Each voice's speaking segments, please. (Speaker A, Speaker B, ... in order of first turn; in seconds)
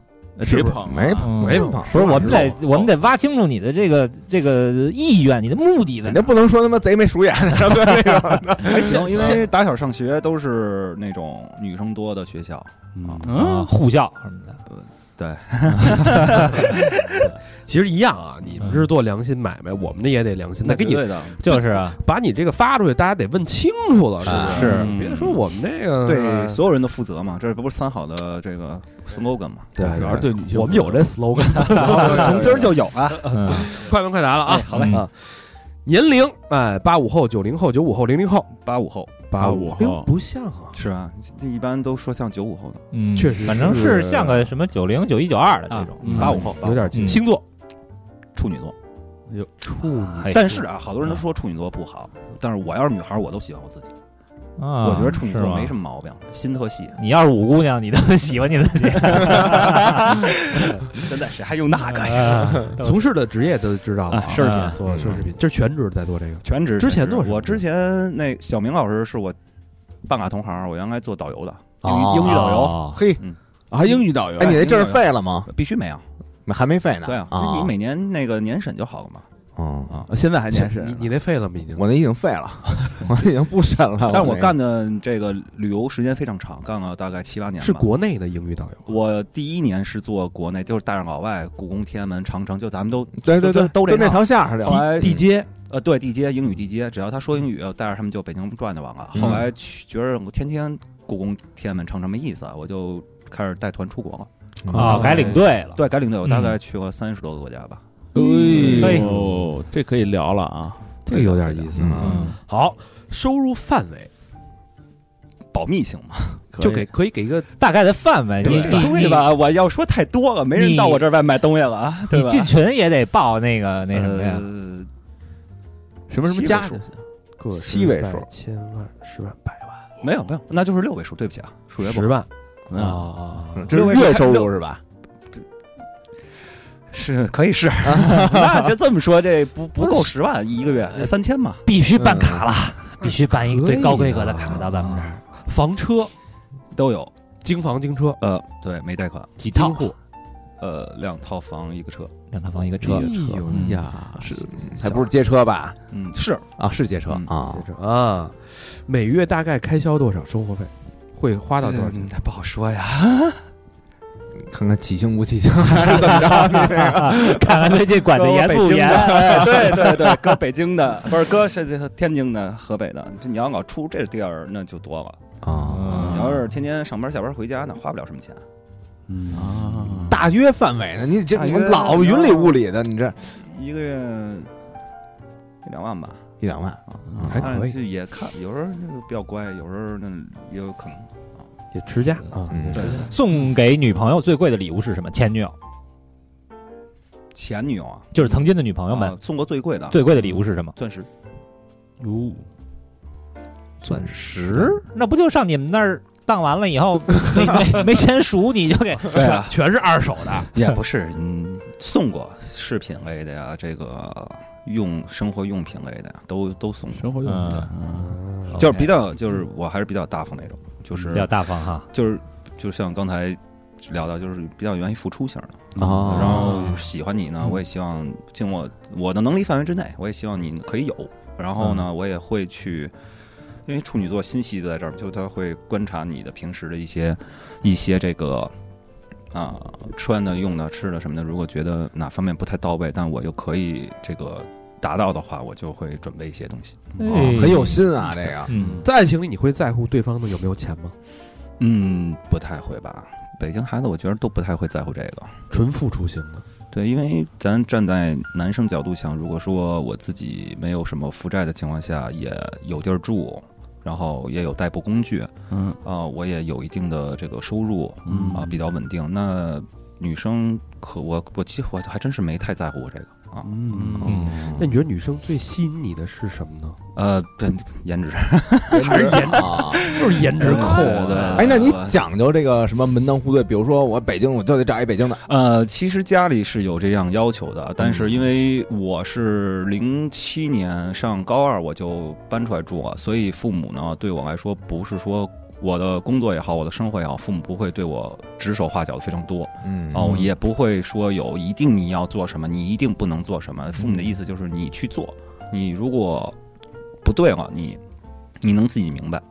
Speaker A: 0.4-1.6, 13.2-13.8, 24.5-25.4, 29.8-31.1, 39.4-40.1, 46.0-46.5, 73.7-74.6, 80.1-81.2, 108.1-110.9, 116.5-116.9, 126.1-127.0, 132.7-133.1, 152.9-155.0, 175.9-176.4, 179.1-180.2, 216.9-218.2, 225.8-226.8, 248.5-248.8, 265.5-265.8, 268.1-268.6, 273.5-274.5
Speaker B: 0.4-2.5, 13.0-13.3, 17.7-26.6, 29.8-32.5, 33.3-38.5, 39.3-40.8, 43.1-44.4, 46.1-47.4, 49.6-50.6, 62.8-67.6, 80.5-81.9, 87.6-88.9, 94.7-95.5, 104.8-105.3, 108.2-109.2, 111.1-114.1, 116.6-117.5, 118.4-119.0, 127.4-129.9, 131.8-133.7, 139.8-140.1, 143.0-144.8, 145.3-146.1, 147.4-148.2, 149.5-149.9, 152.8-154.9, 157.5-162.1, 187.3-187.8, 191.7-192.8, 202.0-202.4, 209.1-210.5, 217.9-218.6, 248.8-250.9, 255.5-256.4, 268.1-268.4, 273.4-276.8, 278.8-281.5
Speaker C: 0.8-2.5, 6.1-9.4, 24.2-24.7, 31.7-32.8, 64.9-65.2, 71.8-73.2, 74.4-75.5, 76.5-77.7, 79.6-80.0, 81.8-84.5, 93.2-95.2, 99.1-99.5, 104.7-105.2, 111.8-112.2, 127.5-128.3, 133.6-134.8, 137.8-138.8, 141.9-142.4, 154.6-155.8, 156.6-157.7, 164.4-167.7, 168.9-169.5, 175.4-176.2, 180.1-183.3, 186.4-187.3, 192.5-192.9, 225.8-226.6, 247.0-248.5, 278.7-279.9, 281.3-285.2, 299.6-300.3
Speaker D: 1.2-6.2, 13.3-14.6, 15.9-16.8, 18.6-18.9, 21.4-22.0, 24.4-24.9, 33.2-33.7, 34.7-35.1, 42.9-46.4, 46.9-47.2, 50.2-50.6, 54.6-55.7, 57.0-60.9, 62.0-63.0, 64.3-64.8, 72.2-73.0, 104.7-106.6, 108.5-109.1, 112.0-112.3, 117.6-119.3, 120.5-121.1, 122.1-124.5, 141.7-145.2, 149.4-149.9, 152.3-153.8, 165.8-170.4, 175.7-176.3, 193.1-195.6, 198.1-199.2, 199.9-200.7, 203.8-209.3, 217.2-217.7, 218.6-218.9, 221.1-221.9, 247.0-247.9, 248.5-248.8, 274.1-274.4
Speaker E: 2.3-2.9, 8.6-13.3, 14.7-17.3, 20.6-21.8, 26.0-29.8, 31.7-33.8, 34.5-35.0, 38.5-39.2, 40.7-42.9, 45.7-46.9, 48.4-48.8, 50.3-53.9, 54.8-57.0, 59.2-62.7, 64.1-64.8, 66.4-69.4, 70.1-73.4, 74.4-76.0, 77.0-79.3, 84.1-87.9, 88.9-107.8, 111.1-111.6, 115.5-116.4, 118.4-122.5, 123.9-124.9, 126.2-126.8, 130.0-132.2, 133.7-134.5, 136.9-141.6, 146.7-147.1, 148.2-149.4, 150.6-152.1, 155.9-156.5, 161.6-163.4, 168.1-175.2, 175.9-178.4, 181.3-182.6, 183.3-184.5, 185.6-186.2, 186.9-191.1, 192.7-193.1, 197.3-198.3, 198.9-200.0, 200.8-201.1, 209.1-209.5, 210.5-217.7, 218.5-221.3, 221.9-232.9, 233.7-238.5, 239.3-247.0, 251.6-255.3, 256.7-273.5, 274.0-274.6, 276.9-282.0, 285.2-306.4, 307.0-307.8, 308.4-309.2